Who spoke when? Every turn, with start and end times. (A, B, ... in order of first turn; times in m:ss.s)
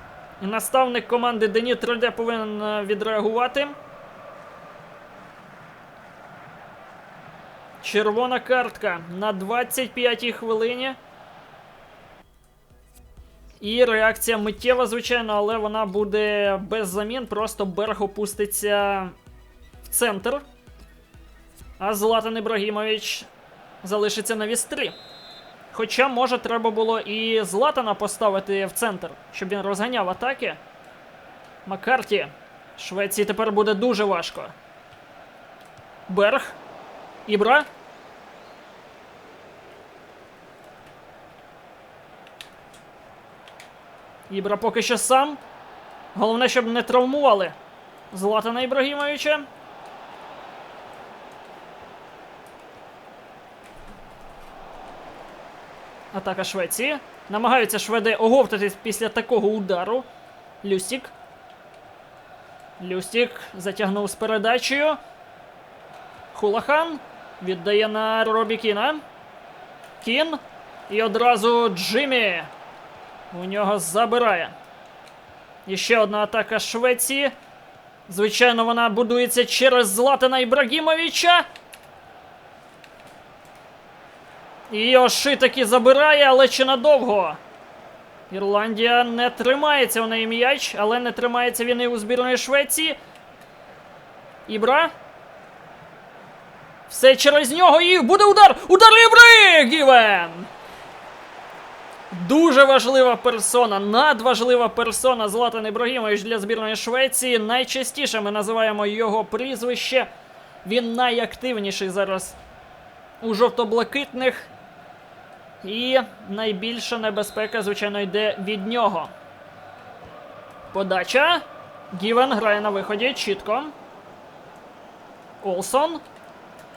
0:00.4-0:03.8 A
0:07.8-0:11.0 A
0:13.6-0:19.1 A
0:19.8-0:20.4 A
0:21.8-0:23.3 A
0:23.8-0:24.9 A
0:25.7-0:30.6 A
0:31.6-0:34.5 A
0:36.1-0:36.6 A
0:37.2-0:37.7 A
0:44.3-0:45.4 A
0:46.1-0:47.6 A
0:48.1-0:49.4 A
0:56.1-1:00.1 A
1:00.6-1:01.1 A
1:02.8-1:05.0 A
1:06.3-1:09.0 A
1:10.0-1:12.5 A
1:13.3-1:14.5 A
1:15.6-1:17.3 A
1:18.1-1:21.4 A
1:24.7-1:27.4 A
1:28.3-1:33.0 A
1:34.4-1:34.9 A
1:36.9-1:40.5 A
1:42.1-1:50.1 A
1:50.6-1:52.4 A
1:53.2-1:54.5 A
1:55.6-1:59.1 A
2:00.7-2:03.7 A
2:05.4-2:06.0 A